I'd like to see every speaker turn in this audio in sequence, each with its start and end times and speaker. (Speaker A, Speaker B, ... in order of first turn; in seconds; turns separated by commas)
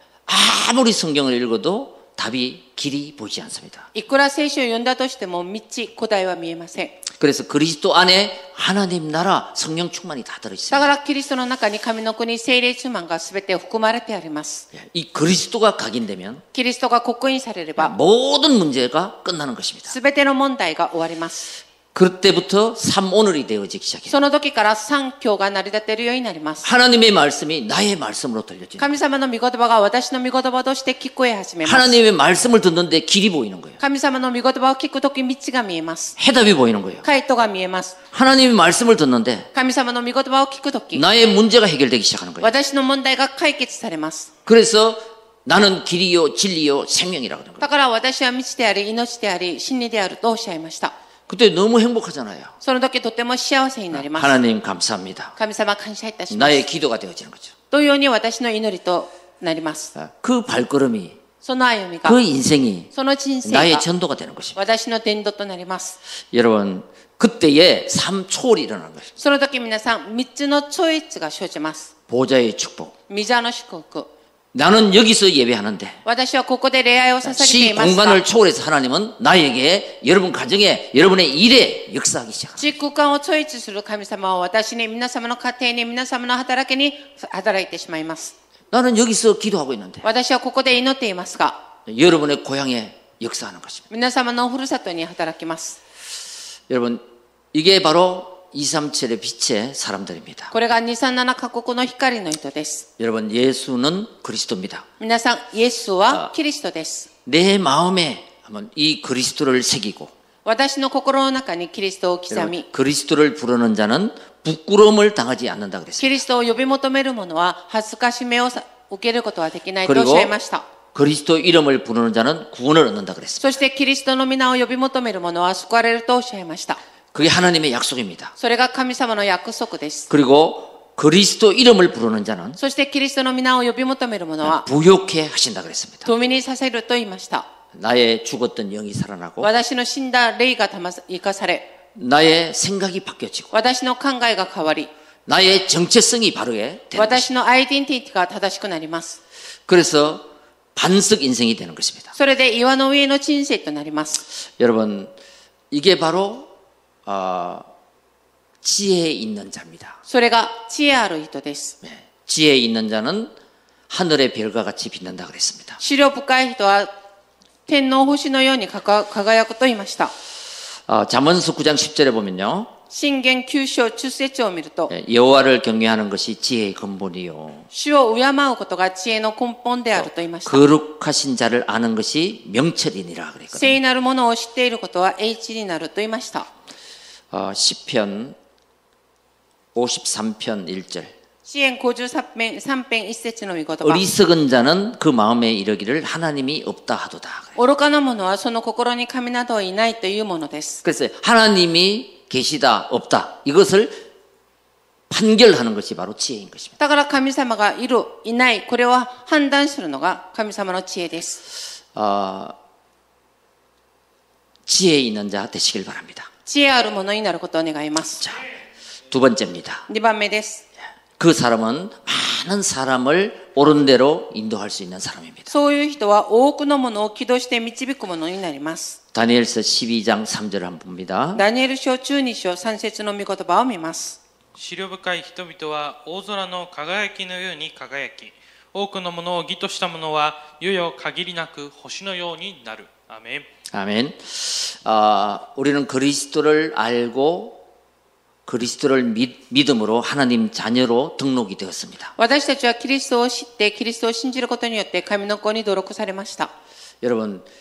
Speaker A: 0.3-3.9, Speaker B: 3.9-7.0, Speaker A: 7.2-10.9, Speaker B: 10.7-14.7, Speaker A: 14.7-16.4, Speaker B: 16.5-17.9, Speaker A: 17.8-19.9, Speaker B: 19.9-21.5, Speaker A: 21.9-24.2, Speaker B: 24.1-26.7, Speaker A: 26.6-29.0, Speaker B: 28.8-32.0, Speaker A: 31.6-33.8, Speaker B: 33.8-36.2, Speaker A: 36.2-37.0, Speaker B: 37.0-38.0, Speaker A: 38.1-39.5, Speaker B: 39.5-41.0, Speaker A: 40.9-42.5, Speaker B: 42.4-44.3, Speaker A: 44.5-47.7, Speaker B: 47.6-50.9, Speaker A: 51.3-52.6, Speaker B: 52.6-54.4, Speaker A: 53.9-55.3, Speaker B: 55.4-56.6, Speaker A: 56.3-57.5, Speaker B: 57.7-59.9, Speaker A: 60.0-61.2, Speaker B: 61.4-62.2, Speaker A: 62.0-62.9, Speaker B: 62.9-63.8, Speaker A: 63.4-64.6, Speaker B: 64.5-66.0, Speaker A: 66.3-69.1, Speaker B: 69.2-71.9, Speaker A: 72.1-72.9, Speaker B: 73.1-74.1, Speaker A: 74.5-76.0, Speaker B: 76.0-78.2, Speaker A: 77.2-82.7, Speaker B: 82.6-88.3, Speaker A: 88.7-90.0, Speaker B: 90.0-91.6, Speaker A: 91.9-93.8, Speaker B: 93.9-95.8, Speaker A: 96.7-100.5, Speaker B: 100.5-102.9, Speaker A: 103.0-104.9, Speaker B: 105.0-107.1, Speaker A: 107.2-110.1, Speaker B: 110.4-112.7, Speaker A: 112.3-116.2, Speaker B: 116.0-120.7, Speaker A: 119.8-120.3, Speaker A: 120.9-123.6, Speaker B: 123.4-126.8, Speaker A: 127.1-128.3, Speaker B: 128.4-130.1, Speaker A: 130.1-132.6, Speaker B: 132.6-134.7, Speaker A: 134.4-136.1, Speaker B: 136.0-137.5, Speaker A: 137.7-139.5, Speaker B: 139.4-141.7, Speaker A: 141.9-143.5, Speaker B: 143.5-144.9, Speaker A: 145.3-147.2, Speaker B: 146.9-149.2, Speaker A: 149.7-152.1, Speaker B: 152.1-154.2, Speaker A: 154.5-155.1, Speaker A: 155.7-156.5, Speaker A: 157.1-157.7, Speaker A: 158.6-160.0, Speaker B: 160.1-161.8, Speaker A: 161.8-163.3, Speaker A: 163.9-165.8, Speaker B: 165.8-166.9, Speaker B: 167.7-170.1, Speaker A: 170.9-172.7, Speaker B: 172.9-174.9, Speaker A: 174.9-177.7, Speaker B: 177.7-180.7, Speaker A: 180.4-183.8, Speaker B: 183.5-186.5, Speaker A: 187.3-188.4, Speaker A: 189.7-191.1, Speaker B: 191.4-194.0, Speaker A: 193.8-197.6, Speaker B: 197.6-200.8, Speaker A: 200.8-204.0, Speaker A: 205.1-206.8, Speaker B: 206.8-211.4, Speaker A: 211.9-212.6, Speaker A: 214.7-216.3, Speaker B: 216.4-218.3, Speaker A: 219.1-219.9, Speaker B: 219.9-220.6, Speaker A: 221.2-225.5, Speaker B: 225.5-229.0, Speaker A: 229.1-231.4, Speaker B: 231.3-234.2, Speaker C: 234.6-243.5, Speaker A: 243.7-247.6, Speaker A: 248.4-252.1, Speaker B: 252.2-256.5, Speaker A: 257.0-257.5